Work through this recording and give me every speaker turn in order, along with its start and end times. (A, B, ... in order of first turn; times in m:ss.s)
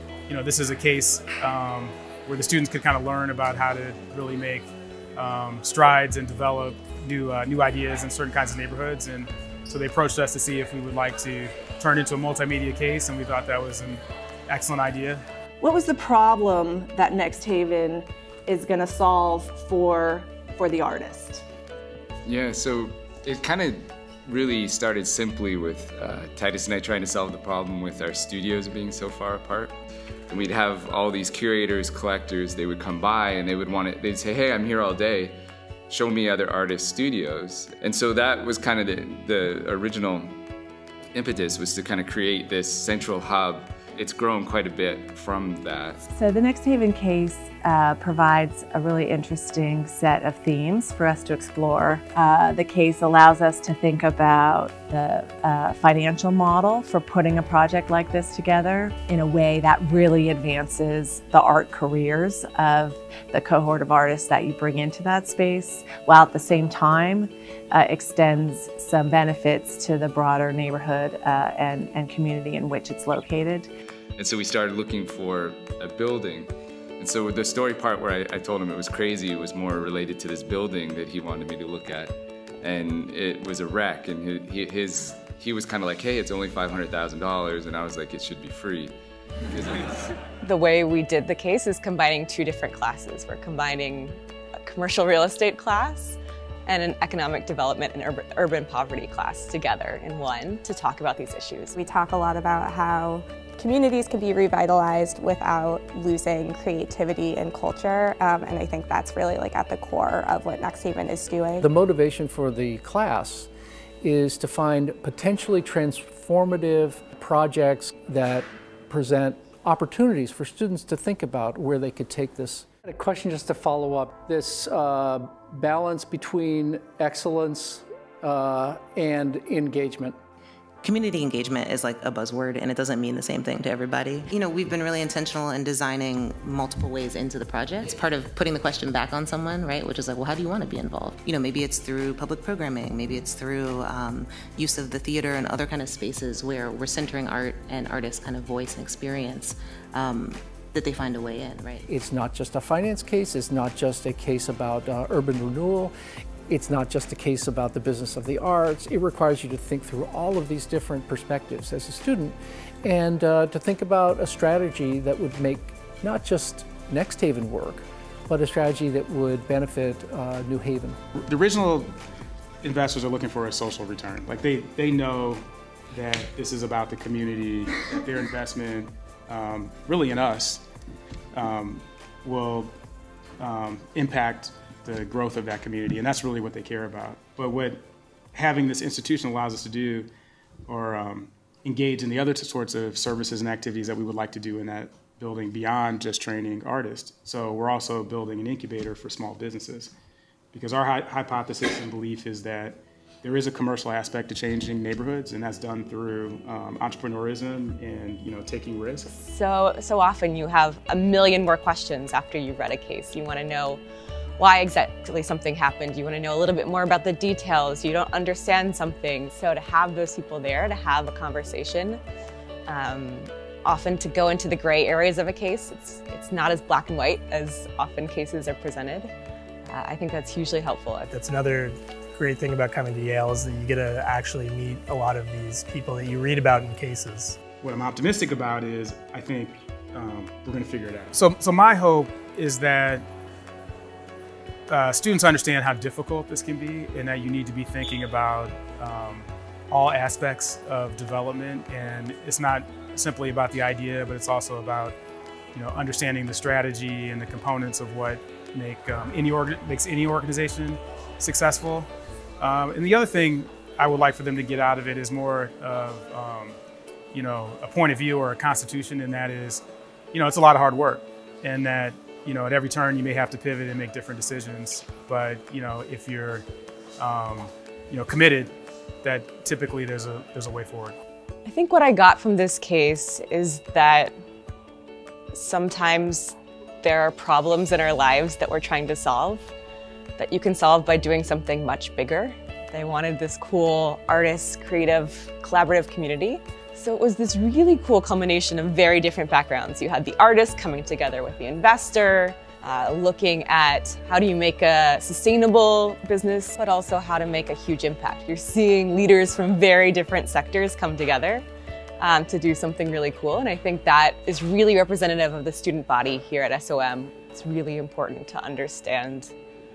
0:00.3-0:15.2 A
0:15.6-0:21.4 B
0:22.2-0:29.7 C
0:30.3-0:35.4 C
0:35.9-0:40.4 C
0:41.1-0:46.1 C
0:46.1-1:13.7 D
1:14.2-1:28.9 C
1:29.5-1:30.1 C
1:30.4-1:34.2 E
1:34.7-1:41.7 E
1:41.8-1:51.6 F
1:51.6-1:53.5 G
1:54.0-2:10.2 G
2:10.8-2:31.8 H
2:31.9-2:35.9 G
2:36.5-2:51.0 G
2:51.2-2:51.9 A
2:52.6-3:00.6 A
3:01.3-3:02.7 A
3:03.4-3:07.8 A
3:08.3-3:10.1 A
3:10.7-3:19.9 A
3:20.5-3:29.1 A
3:29.1-3:33.8 E
3:34.4-3:42.0 E
3:42.7-3:49.1 E
3:49.7-3:51.1 E
3:51.1-3:57.4 I
3:57.6-4:03.0 A
4:04.7-4:15.0 A
4:15.5-4:21.9 A
4:22.4-4:26.6 A
4:27.1-4:36.4 A
4:37.0-4:41.0 A
4:41.4-4:44.1 E
4:45.3-4:49.5 E
4:50.2-5:11.4 E
5:12.0-5:19.3 E